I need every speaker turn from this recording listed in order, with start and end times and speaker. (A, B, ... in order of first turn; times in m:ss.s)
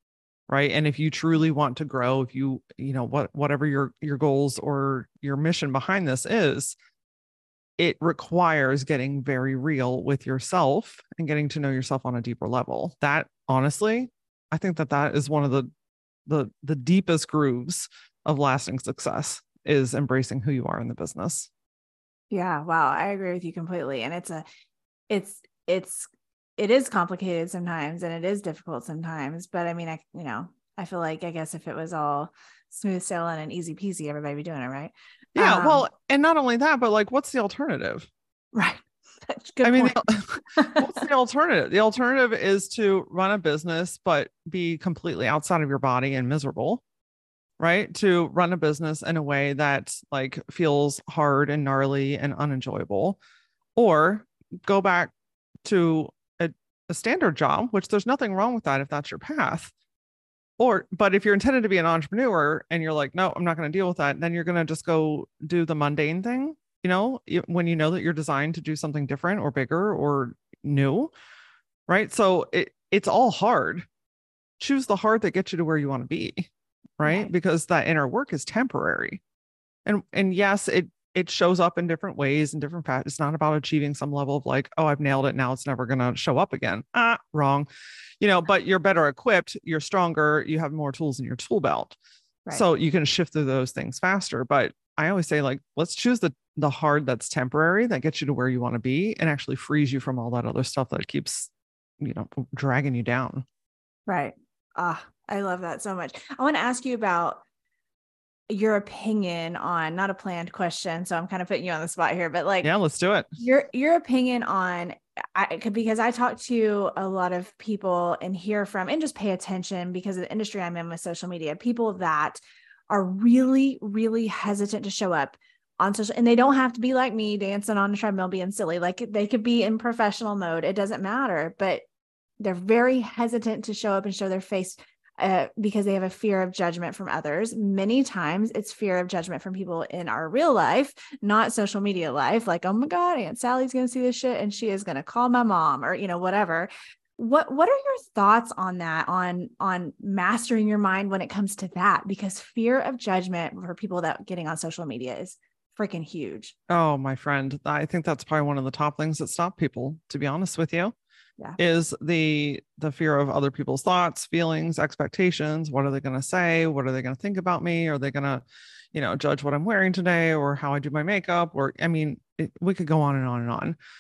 0:00.5-0:06.8 A
0:07.8-0:15.7 A
0:16.3-0:21.5 A
0:22.3-0:24.4 B
0:25.1-0:35.8 B
0:35.4-0:38.1 A
0:38.5-0:41.0 B
0:39.6-0:46.8 A
0:47.6-0:53.2 A
0:53.8-0:55.1 A
0:55.6-0:59.7 A
1:00.6-1:11.1 A
1:11.9-1:13.9 A
1:14.6-1:19.2 A
1:17.0-1:17.3 B
1:19.8-1:27.7 A
1:28.2-1:32.0 A
1:32.5-1:43.4 A
1:44.1-1:47.4 B
1:48.5-1:52.7 B
1:52.6-1:53.3 A
1:53.4-2:11.8 B
2:12.4-2:36.6 B
2:36.7-2:40.9 A
2:41.6-2:53.8 A